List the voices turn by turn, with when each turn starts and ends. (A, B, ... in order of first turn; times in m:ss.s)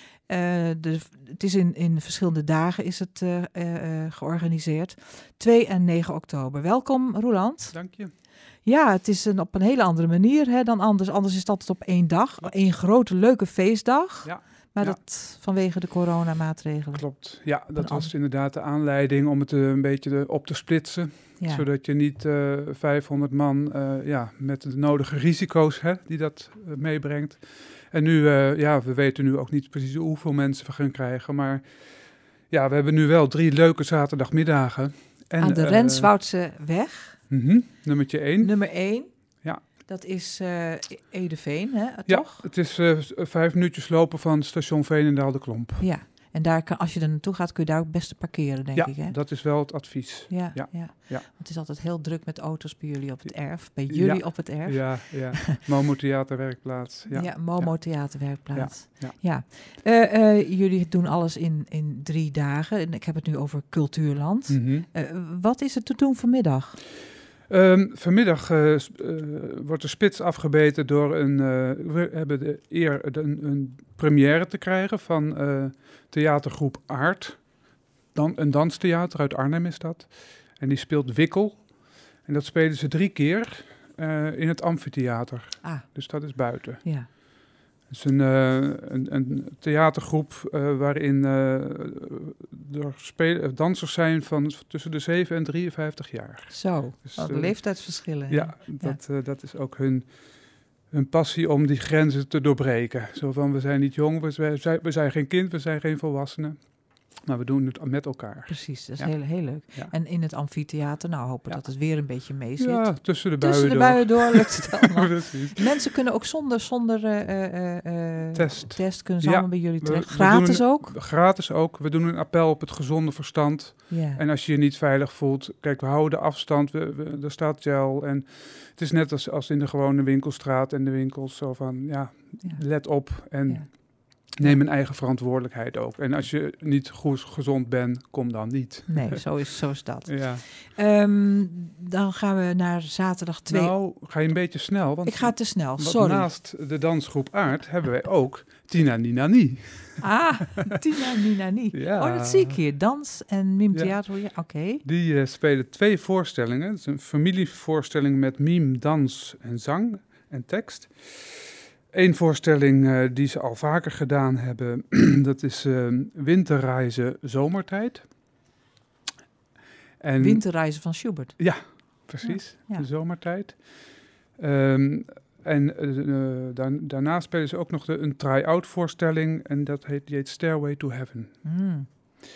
0:00.3-0:07.8 A
0:07.7-0:08.1 B
0:08.6-0:17.0 A
0:14.2-0:15.0 B
0:16.9-0:31.6 B
0:17.8-0:18.1 A
0:21.4-0:21.7 A
0:32.5-0:36.1 B
0:35.4-0:37.2 A
0:37.3-0:38.6 B
0:38.4-0:39.1 A
0:39.6-0:42.4 A
0:42.1-0:45.8 B
0:45.8-0:49.2 A
0:48.7-0:51.2 B
0:50.3-0:55.6 A
0:53.9-0:59.1 B
0:57.1-1:06.8 A
1:04.5-1:04.9 B
1:07.5-1:17.4 B
1:18.1-1:21.7 B
1:22.2-1:26.8 B
1:26.8-1:27.1 A
1:27.9-1:37.6 B
1:36.5-1:39.0 A
1:38.3-1:40.1 B
1:40.9-1:46.6 B
1:47.2-1:49.9 B
1:48.5-2:00.9 A
1:52.6-1:55.7 B
1:58.3-2:19.3 B
2:03.9-2:04.2 A
2:18.9-2:23.7 A
2:20.0-2:20.4 B
2:23.5-2:30.0 B
2:25.0-2:26.3 A
2:30.0-2:34.8 A
2:31.7-2:32.6 B
2:34.8-2:48.1 B
2:50.0-2:50.4 B
2:50.2-2:51.4 A
2:51.4-2:53.6 B
2:52.2-2:52.8 A
2:54.4-3:01.3 B
3:01.4-3:01.9 A